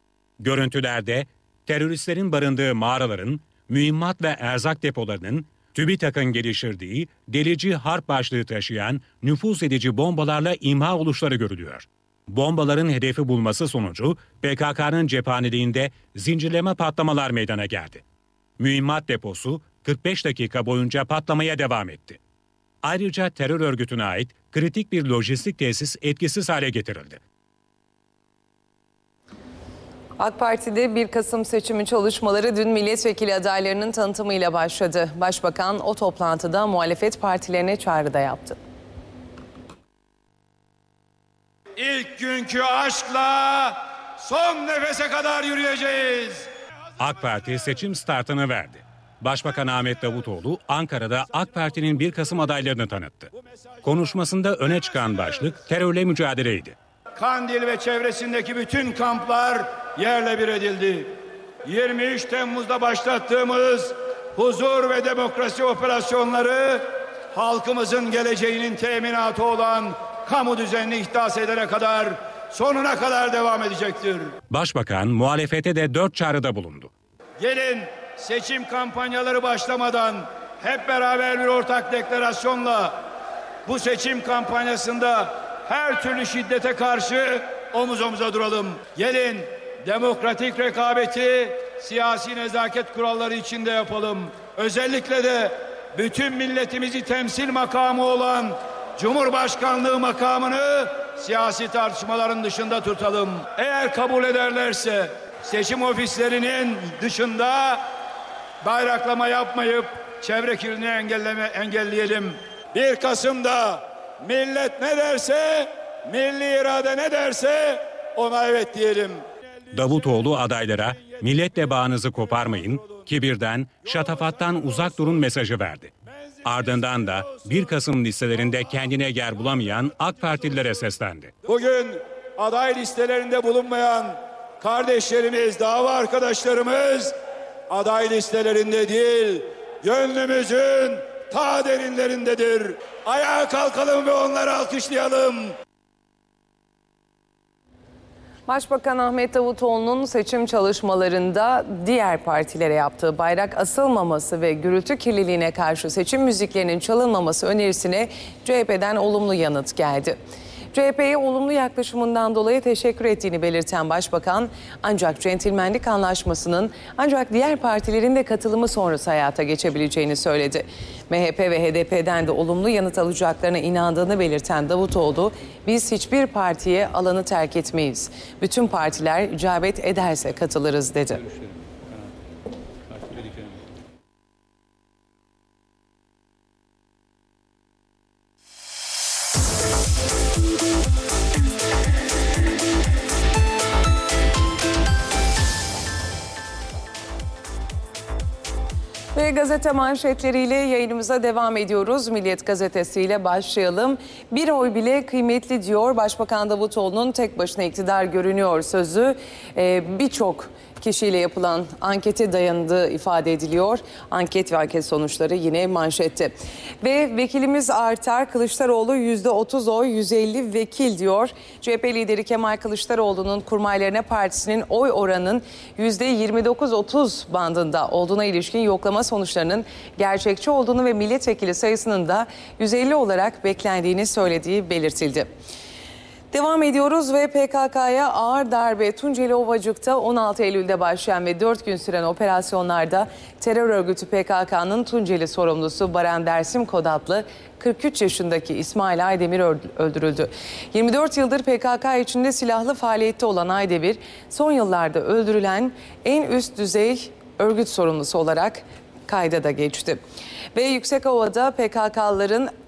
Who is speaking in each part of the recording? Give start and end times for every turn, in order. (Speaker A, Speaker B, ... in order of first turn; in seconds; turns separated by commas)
Speaker A: 0.4-18.0, Speaker A: 18.6-22.2, Speaker A: 22.8-27.2, Speaker B: 30.2-38.6, Speaker C: 41.8-46.5, Speaker A: 47.0-53.3, Speaker A: 53.8-56.8, Speaker C: 57.2-74.3, Speaker A: 74.5-76.9, Speaker C: 77.4-83.0, Speaker C: 83.7-107.8, Speaker C: 108.6-119.2, Speaker A: 119.7-131.3, Speaker C: 131.5-137.1, Speaker C: 137.7-145.5, Speaker B: 148.5-160.2, Speaker B: 160.7-181.2, Speaker B: 199.2-235.3, Speaker B: 236.3-260.0, Speaker B: 260.6-262.5